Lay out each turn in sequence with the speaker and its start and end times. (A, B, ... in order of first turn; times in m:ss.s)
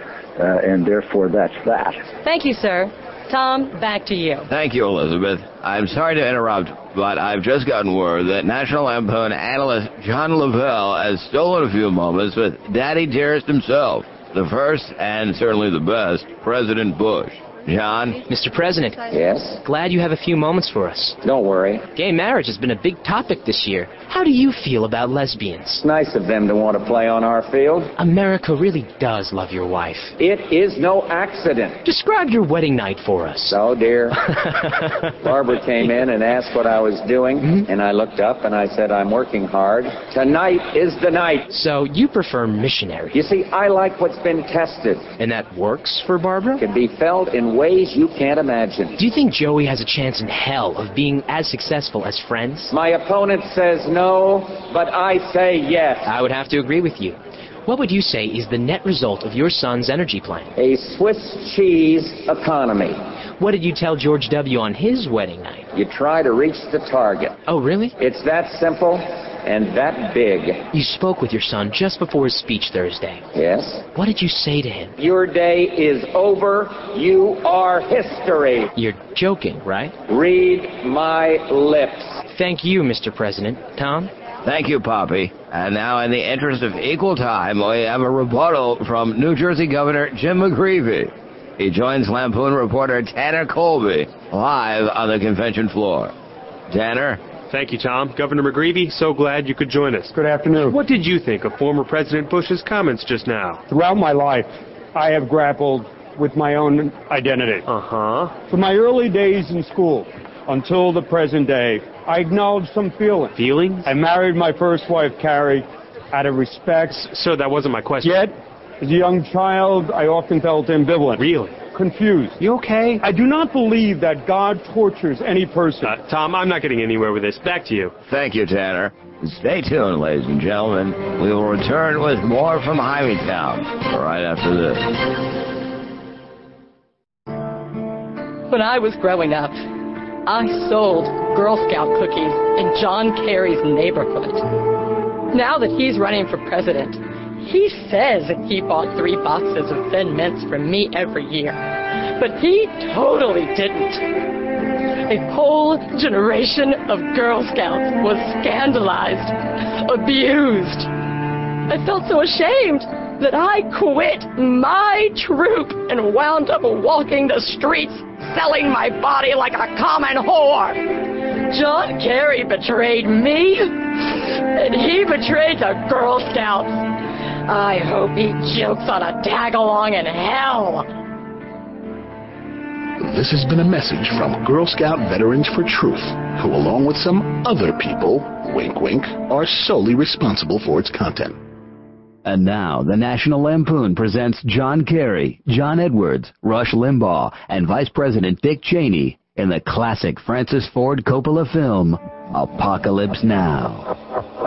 0:00.4-0:02.0 A
0:02.2-0:04.5 B
0:04.5-0:18.2 C
0:18.2-0:19.1 D
0:19.1-0:19.6 E
0:19.6-0:21.2 D
0:21.2-0:21.9 E
0:21.9-0:25.8 D
0:25.8-0:27.9 E
0:28.0-0:30.1 D
0:30.2-0:31.8 E
0:31.8-0:33.6 D
0:33.4-0:34.2 E
0:35.1-0:41.5 E
0:41.5-0:43.2 D
0:43.1-0:45.0 E
0:45.2-0:46.6 D
0:46.6-0:49.0 E
0:49.0-0:52.7 D
0:52.7-0:56.1 E
0:56.0-1:00.5 D
1:00.6-1:03.0 E
1:03.4-1:05.7 D
1:05.7-1:07.4 E
1:07.5-1:07.9 D
1:08.0-1:10.6 E
1:10.7-1:13.2 D
1:13.3-1:13.9 E
1:13.9-1:14.9 D
1:15.0-1:18.7 E
1:18.8-1:20.0 D
1:20.1-1:22.2 E
1:22.3-1:24.1 D
1:24.4-1:36.1 C
1:36.7-1:37.2 C
1:37.5-1:43.6 F
1:40.1-1:40.7 G
1:43.7-1:47.6 G
1:47.6-1:48.4 F
1:48.4-1:53.3 G
1:53.3-1:53.9 F
1:53.9-1:56.9 G
1:56.9-1:58.3 F
1:58.0-2:02.4 G
2:01.1-2:01.6 F
2:02.4-2:03.0 F
2:03.0-2:05.9 G
2:05.8-2:07.9 F
2:08.1-2:15.0 C
2:18.5-2:19.6 B
2:20.2-2:24.7 B
2:25.3-2:40.9 B
2:41.7-2:56.8 B
2:57.5-3:00.9 B
3:03.0-3:11.4 H
3:12.2-3:23.9 I
3:21.6-3:21.8 A
3:23.2-3:23.4 A